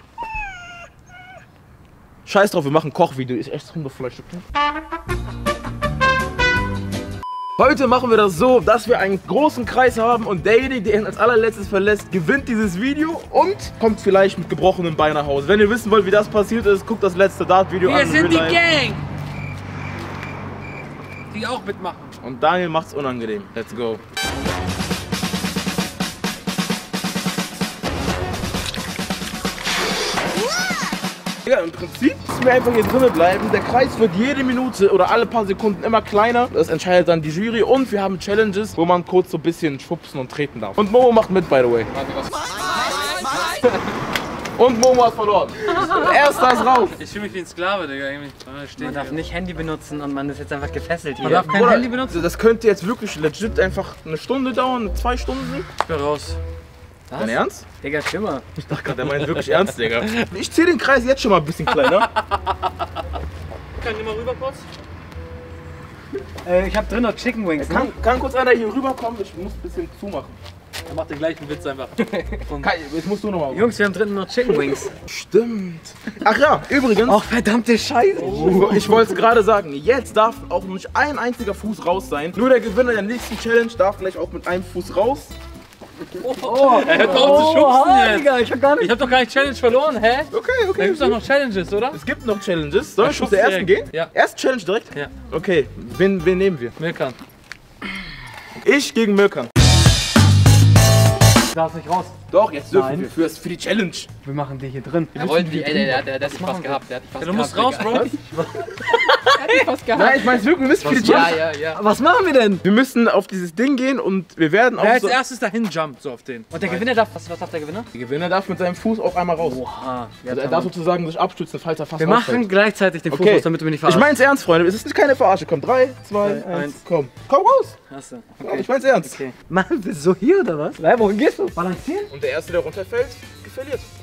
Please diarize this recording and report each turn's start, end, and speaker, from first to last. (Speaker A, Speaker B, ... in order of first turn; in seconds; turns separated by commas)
Speaker A: 2.2-4.4, Speaker A: 7.6-18.6, Speaker B: 17.8-19.0, Speaker B: 21.3-22.1, Speaker A: 22.2-24.0, Speaker A: 31.4-41.9, Speaker C: 42.0-42.3, Speaker A: 44.5-47.0, Speaker B: 46.9-49.2, Speaker D: 48.8-51.7, Speaker B: 51.2-52.2, Speaker A: 51.2-55.6, Speaker B: 55.8-56.4, Speaker D: 57.1-58.5, Speaker A: 57.1-57.6, Speaker A: 58.6-62.1, Speaker B: 61.9-62.5, Speaker B: 63.8-64.7, Speaker D: 66.4-67.9, Speaker A: 67.6-70.4, Speaker B: 70.9-72.7, Speaker A: 72.6-73.7, Speaker D: 73.5-74.9, Speaker A: 74.5-77.2, Speaker D: 77.0-79.2, Speaker B: 78.1-78.9, Speaker A: 78.2-85.3, Speaker B: 86.2-92.0, Speaker D: 86.4-89.0, Speaker A: 86.9-87.5, Speaker A: 90.3-91.2, Speaker A: 91.9-96.8, Speaker B: 93.0-94.1, Speaker B: 96.8-97.2, Speaker A: 98.6-99.5, Speaker D: 101.5-102.2, Speaker A: 102.3-104.1, Speaker D: 102.7-103.1, Speaker D: 104.2-106.8, Speaker A: 105.1-106.0, Speaker C: 105.1-108.1, Speaker B: 107.2-108.2, Speaker D: 107.8-109.7, Speaker C: 109.3-111.8, Speaker A: 109.9-111.4, Speaker D: 110.8-112.6, Speaker A: 112.6-115.2, Speaker B: 114.8-116.5, Speaker D: 116.5-117.9, Speaker A: 117.9-119.6, Speaker D: 119.4-120.7, Speaker A: 120.3-122.6, Speaker D: 122.0-124.1, Speaker A: 123.1-127.7, Speaker D: 126.2-126.8, Speaker D: 127.9-132.1, Speaker A: 128.4-129.2, Speaker A: 132.1-133.9